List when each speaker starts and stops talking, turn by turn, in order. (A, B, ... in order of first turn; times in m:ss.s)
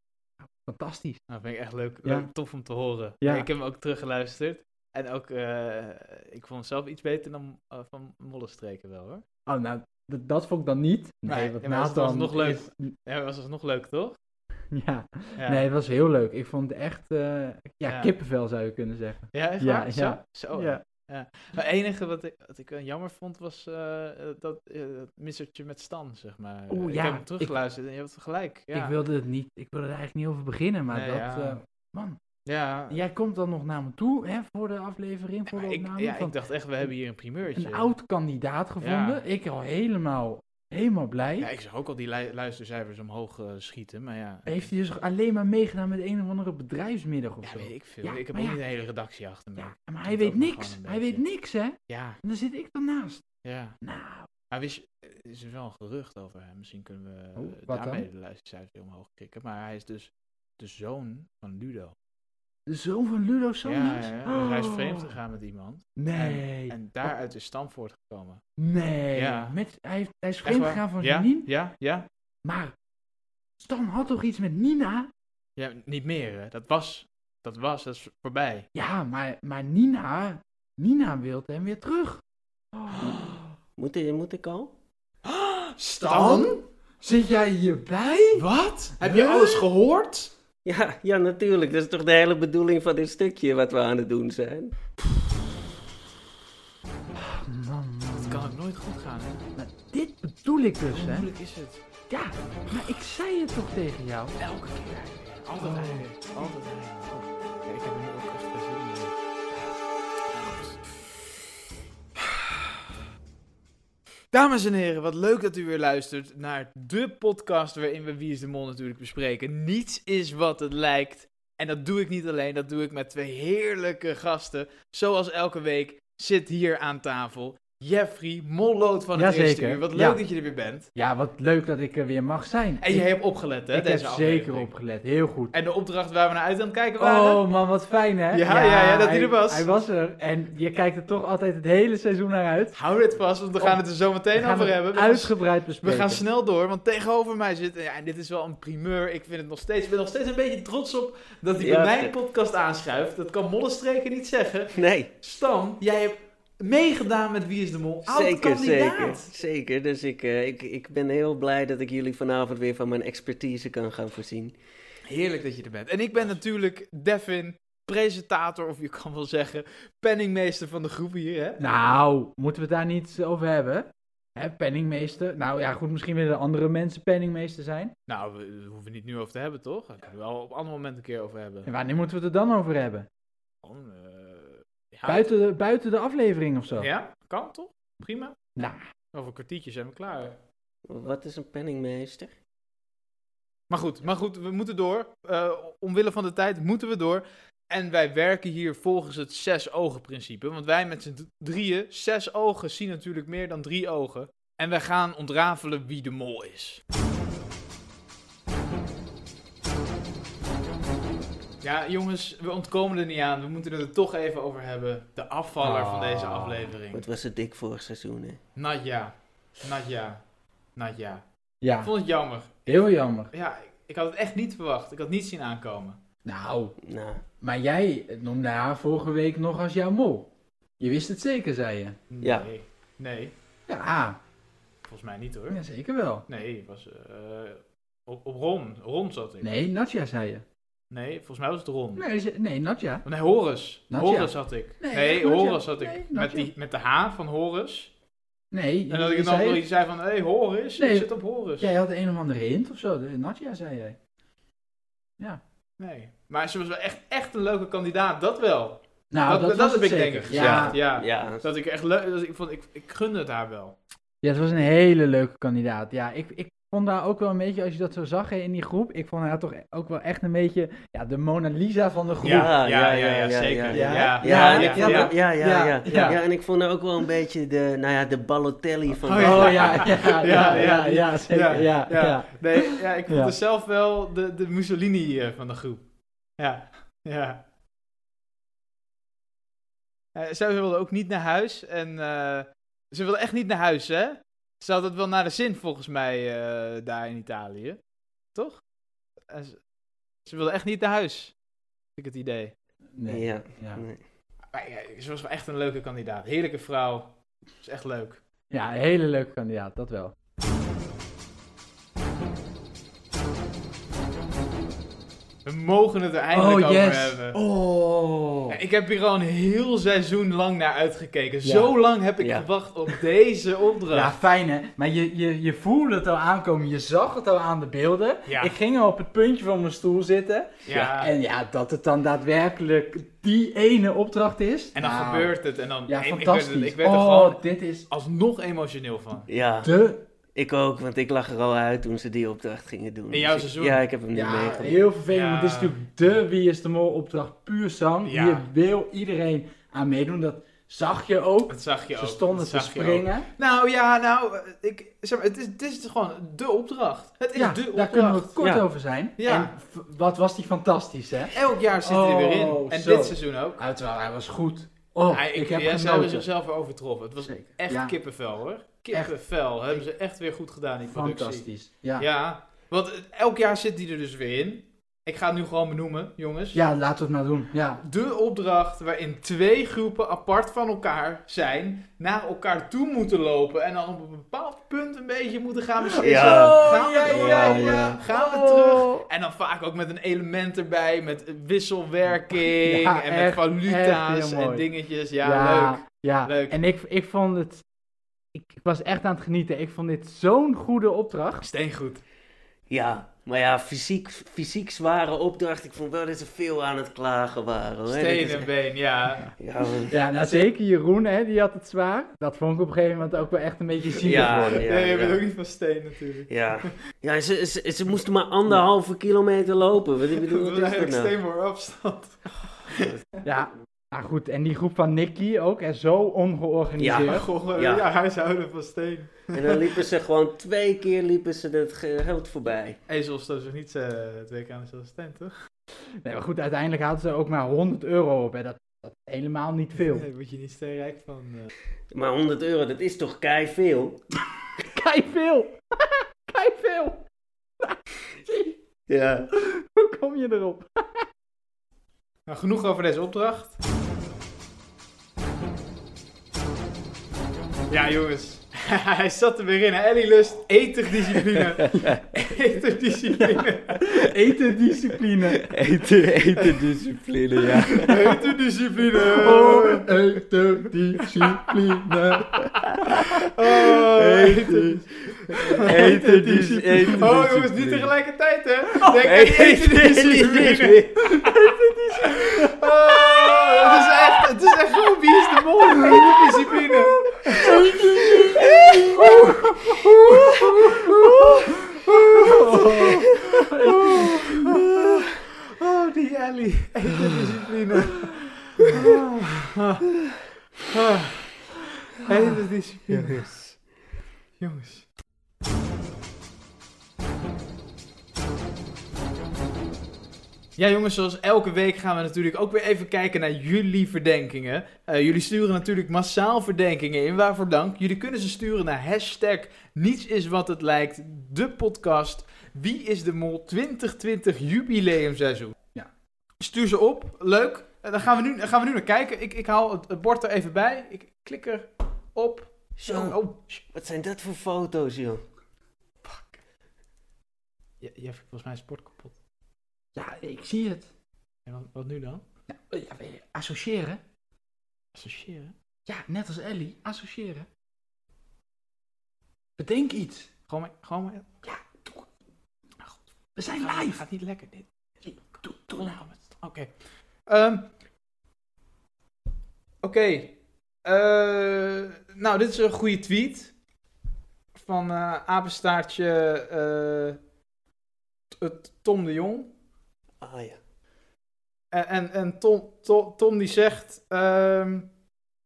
0:00.4-0:01.2 A
0:01.3-0:09.2 B
0:02.0-0:02.3 A
0:03.2-0:03.5 A
0:09.5-0:12.9 A
0:11.3-0:14.2 B
0:14.7-0:20.8 A
0:15.4-0:15.6 B
0:17.8-0:18.1 B
0:19.3-0:29.0 B
0:26.7-0:27.6 A
0:28.7-0:32.2 A
0:30.9-0:31.6 B
0:32.4-0:33.0 B
0:32.9-0:36.4 A
0:35.5-0:37.9 B
0:37.5-0:41.5 A
0:38.8-0:39.2 B
0:41.4-0:44.7 B
0:44.4-0:48.6 A
0:47.4-0:51.2 B
0:49.6-0:53.2 A
0:51.9-0:52.2 B
0:53.4-0:53.8 B
0:53.8-0:54.3 A
0:54.5-1:01.9 B
0:57.4-0:58.1 A
1:02.6-1:05.1 A
1:03.6-1:08.4 B
1:06.0-1:07.1 A
1:08.6-1:11.5 A
1:09.1-1:09.6 B
1:10.4-1:12.1 B
1:12.4-1:12.7 A
1:13.6-1:15.1 A
1:15.6-1:18.7 B
1:18.7-1:23.4 A
1:23.0-1:23.3 B
1:23.8-1:24.7 C
1:25.2-1:26.6 B
1:26.0-1:28.4 A
1:28.3-1:30.3 B
1:29.0-1:29.6 A
1:30.6-1:34.7 C
1:37.2-1:38.6 A
1:38.1-1:39.4 B
1:39.6-1:41.3 A
1:40.9-1:41.8 B
1:42.1-1:44.4 A
1:44.4-1:49.2 B
1:45.6-1:46.0 A
1:50.3-1:50.9 B
1:52.2-1:52.7 B
1:54.3-2:10.9 B
2:09.1-2:10.2 A
2:10.9-2:13.1 A
2:12.8-2:14.7 B
2:13.7-2:15.5 A
2:15.5-2:17.5 B
2:17.0-2:22.8 A
2:18.3-2:19.7 B
2:22.7-2:39.2 B
2:24.3-2:26.2 A
2:31.6-2:32.1 C
2:34.7-2:35.1 C
2:38.0-2:44.5 C
2:38.4-2:39.2 A
2:45.0-2:51.6 B
2:51.6-2:57.9 A
2:58.1-3:01.7 B
3:01.6-3:03.1 A
3:03.6-3:05.3 B
3:05.0-3:06.9 A
3:06.8-3:08.4 B
3:09.1-3:10.4 B
3:10.9-3:12.3 C
3:13.7-3:26.8 B
3:31.6-3:37.1 B
3:35.6-3:36.7 A
3:36.9-3:38.4 C
3:38.6-3:40.2 B
3:40.8-3:41.2 B
3:41.6-3:41.9 A
3:41.8-3:46.0 B
3:42.7-3:43.3 A
3:46.2-3:46.8 A
3:46.8-3:47.2 C
3:47.4-3:52.0 A
3:52.1-3:53.3 B
3:52.2-3:52.5 C
3:53.7-3:54.2 A
3:54.8-3:55.6 B
3:55.5-3:56.3 A
3:56.3-3:59.5 B
3:59.4-4:00.4 A
4:00.9-4:02.0 B
4:02.0-4:03.0 A
4:03.0-4:07.9 B
4:03.9-4:06.5 A
4:08.5-4:09.6 A
4:08.9-4:11.7 B
4:10.8-4:14.0 A
4:15.8-4:23.8 B
4:19.1-4:20.8 A
4:20.3-4:21.5 C
4:24.2-4:32.6 A
4:32.2-4:35.1 B
4:32.2-4:40.8 C
4:33.7-4:36.2 A
4:39.0-4:45.8 B
4:39.2-4:43.3 A
4:46.4-4:47.4 B
4:50.1-4:57.8 B
4:58.3-4:58.6 B
4:59.3-4:59.6 B
5:00.2-5:01.3 B
5:02.0-5:02.5 B
5:02.9-5:03.8 A
5:03.1-5:04.0 C
5:04.5-5:08.2 B
5:08.5-5:10.1 A
5:15.4-5:17.4 B
5:16.3-5:18.6 A
5:18.5-5:24.2 B
5:21.4-5:21.7 A
5:22.2-5:22.5 C
5:23.9-5:35.3 A
5:28.2-5:28.6 B
5:30.6-5:31.1 B
5:34.7-5:39.3 B
5:35.9-5:37.9 A
5:39.3-5:39.7 C
5:39.6-5:40.0 A
5:40.3-5:44.9 C
5:43.1-5:43.8 B
5:44.1-5:53.3 A
5:45.1-5:45.8 B
5:48.0-5:48.5 B
5:51.5-5:58.4 B
5:57.3-6:06.3 A
5:58.4-5:58.6 C
5:59.2-5:59.5 B
6:01.3-6:03.6 B
6:05.1-6:16.6 B
6:07.2-6:08.0 A
6:10.9-6:12.1 A
6:16.5-6:17.8 A
6:17.8-6:36.6 B
6:25.8-6:29.0 A
6:26.0-6:28.0 C
6:32.3-6:34.7 A
6:35.2-6:37.6 A
6:38.3-6:41.5 A
6:41.4-6:42.0 B
6:42.7-6:48.5 C
6:47.9-6:49.3 B
6:49.4-6:50.0 C
6:49.9-6:54.7 A
6:50.2-6:50.4 B
6:54.0-6:55.2 C
6:54.0-6:56.3 B
6:56.3-7:01.1 C
7:00.2-7:02.9 B
7:03.2-7:07.3 A
7:06.8-7:07.9 C
7:06.8-7:09.6 B
7:09.3-7:12.8 C
7:12.9-7:15.3 B
7:16.0-7:20.1 A
7:19.8-7:21.5 B
7:21.9-7:24.0 C
7:24.6-7:27.0 A
7:27.6-7:28.6 A
7:28.9-7:29.3 C
7:29.3-7:31.0 A
7:32.3-7:33.6 B
7:37.7-7:43.8 B
7:43.1-7:45.5 A
7:45.4-7:48.0 C
7:47.5-7:48.2 A
7:47.8-7:49.9 B
7:49.0-7:52.6 A
7:53.0-7:57.9 C
7:53.0-7:56.0 B
7:55.4-7:57.1 A
7:57.0-8:01.5 B
7:59.0-8:01.0 C
8:01.0-8:02.5 A
8:02.0-8:07.4 B
8:05.6-8:06.6 A
8:07.2-8:14.8 A
8:07.3-8:07.7 C
8:08.2-8:09.1 C
8:11.8-8:19.8 B
8:20.7-8:23.3 B
8:22.9-8:23.6 C
8:24.4-8:24.9 B
8:30.6-8:45.6 B
8:46.4-8:53.6 B
8:52.8-8:53.2 C
8:53.7-8:55.2 C
8:56.0-8:56.4 B
8:57.8-8:59.1 B
8:59.9-9:00.9 A
9:01.4-9:02.2 B
9:02.5-9:04.0 A
9:04.9-9:05.5 B
9:05.9-9:07.5 A
9:09.6-9:10.3 A
9:10.5-9:11.3 B
9:11.4-9:12.1 A
9:13.4-9:14.0 A
9:13.5-9:16.7 B
9:15.0-9:16.0 A
9:17.2-9:17.7 B
9:19.8-9:23.5 B
9:24.5-9:27.2 B
9:28.3-9:29.5 B
9:30.2-9:30.6 C
9:31.7-9:34.9 B